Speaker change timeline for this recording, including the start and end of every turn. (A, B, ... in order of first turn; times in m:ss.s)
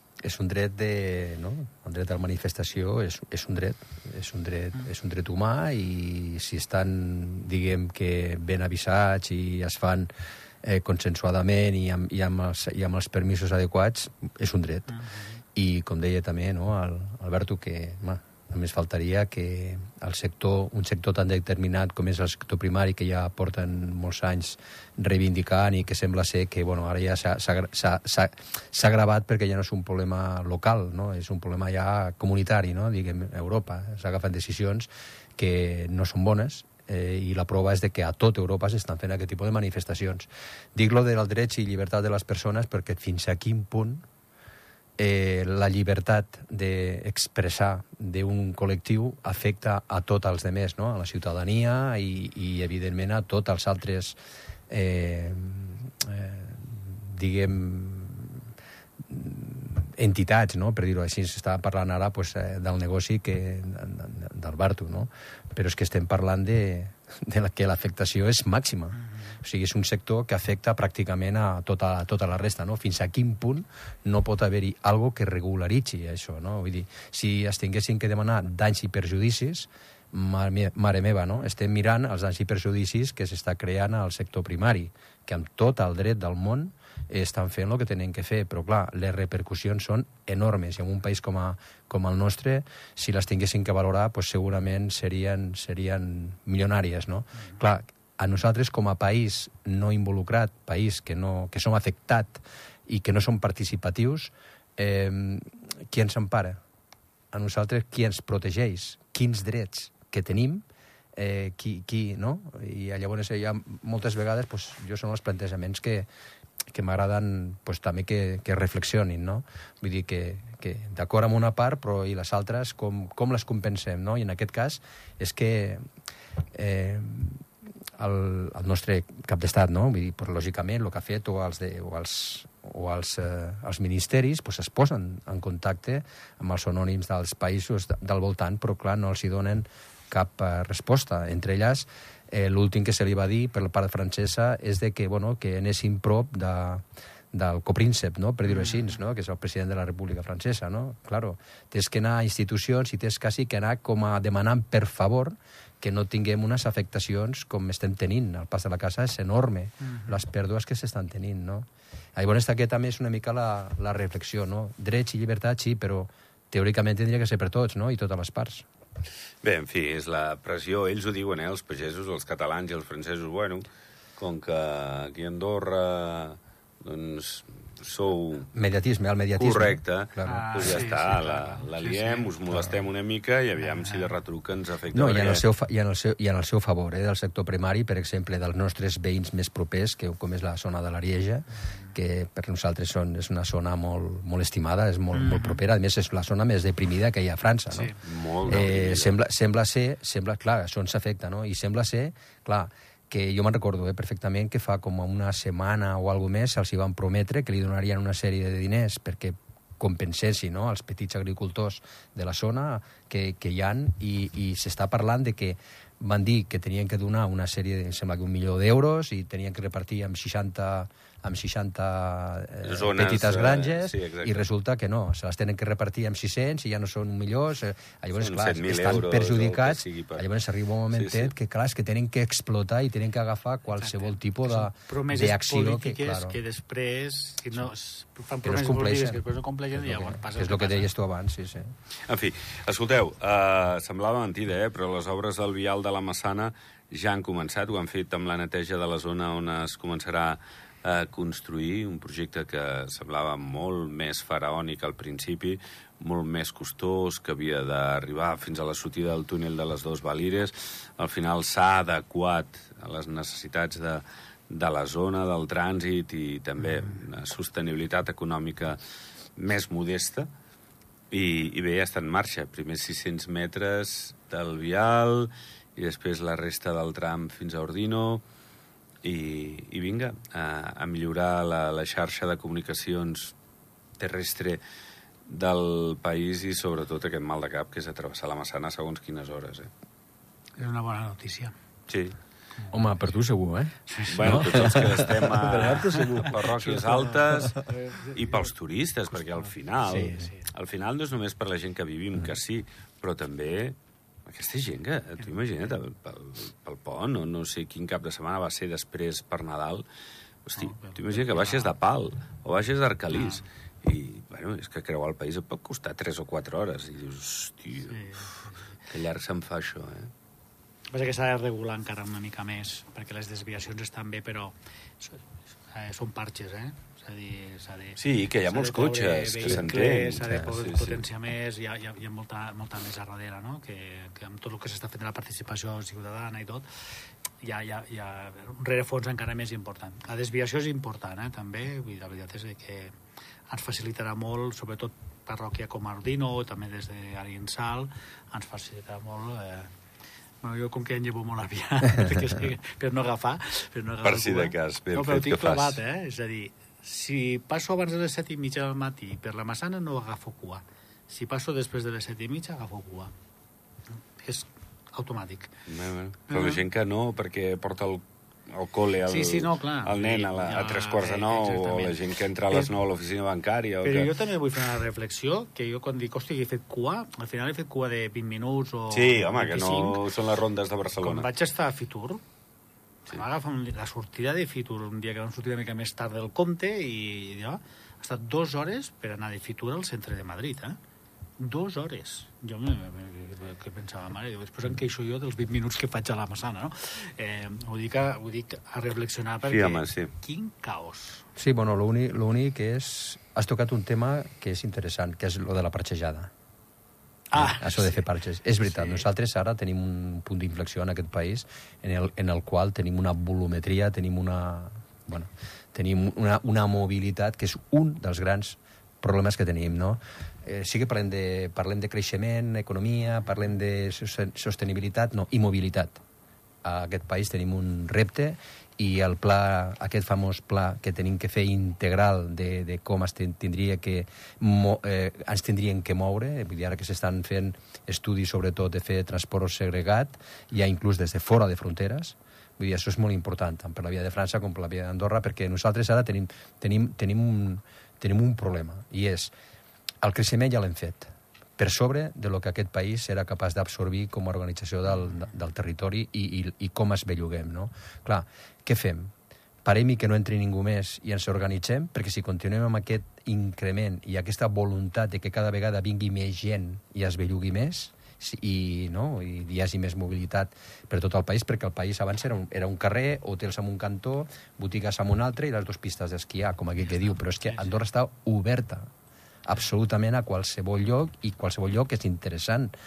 0:00.2-0:10.1 A
0:10.6-0:15.0 A
0:14.9-0:15.4 B
0:15.5-0:44.0 A
0:45.0-0:54.2 A
0:54.7-0:58.5 A
0:59.0-1:46.6 A
1:47.3-1:56.1 A
1:56.7-2:05.8 A
2:06.5-2:48.6 A
2:28.5-2:28.8 B
2:39.8-2:40.2 B
2:49.4-2:53.6 C
2:54.2-2:58.5 C
2:58.5-3:00.8 A
2:59.4-3:05.4 C
3:00.2-3:02.3 B
3:03.6-3:04.1 B
3:04.9-3:56.4 A
3:15.1-3:15.6 B
3:17.7-3:18.0 B
3:18.0-3:19.1 C
3:42.6-3:44.4 C
3:48.2-3:50.3 C
3:50.9-3:51.3 C
3:53.8-4:00.9 B
3:58.4-3:59.2 A
3:59.8-4:01.7 A
4:02.1-4:28.8 C
4:29.4-4:30.3 C
4:31.1-4:38.2 C
4:39.0-4:43.3 C
4:44.0-4:44.6 C
4:45.3-4:49.7 C
4:50.6-4:51.5 B
4:51.9-4:52.2 C
4:52.7-4:56.3 A
4:53.9-4:58.5 B
4:54.1-5:09.8 C
4:59.8-5:00.2 A
4:59.9-5:00.5 B
5:10.4-5:18.3 C
5:10.6-5:11.7 B
5:13.1-5:13.4 B
5:17.9-5:18.7 B
5:18.9-5:20.1 C
5:20.9-5:36.7 B
5:28.0-5:31.0 C
5:37.4-5:42.9 B
5:43.5-5:49.7 B
5:50.4-6:03.1 B
5:54.0-5:55.8 C
6:04.2-6:05.5 B
6:05.7-6:14.1 C
6:06.3-6:06.6 B
6:09.1-6:12.7 B
6:13.8-6:20.0 B
6:18.9-6:21.3 C
6:21.0-6:22.2 B
6:23.1-6:30.8 B
6:31.4-6:41.3 B
6:39.5-6:40.1 C
6:41.4-6:46.3 A
6:47.3-6:48.0 B
6:47.3-7:06.0 A
6:48.6-6:49.0 B
7:06.6-7:29.3 A
7:30.0-7:39.1 A
7:39.6-7:58.9 A
7:56.9-7:57.8 B
7:59.4-8:02.7 A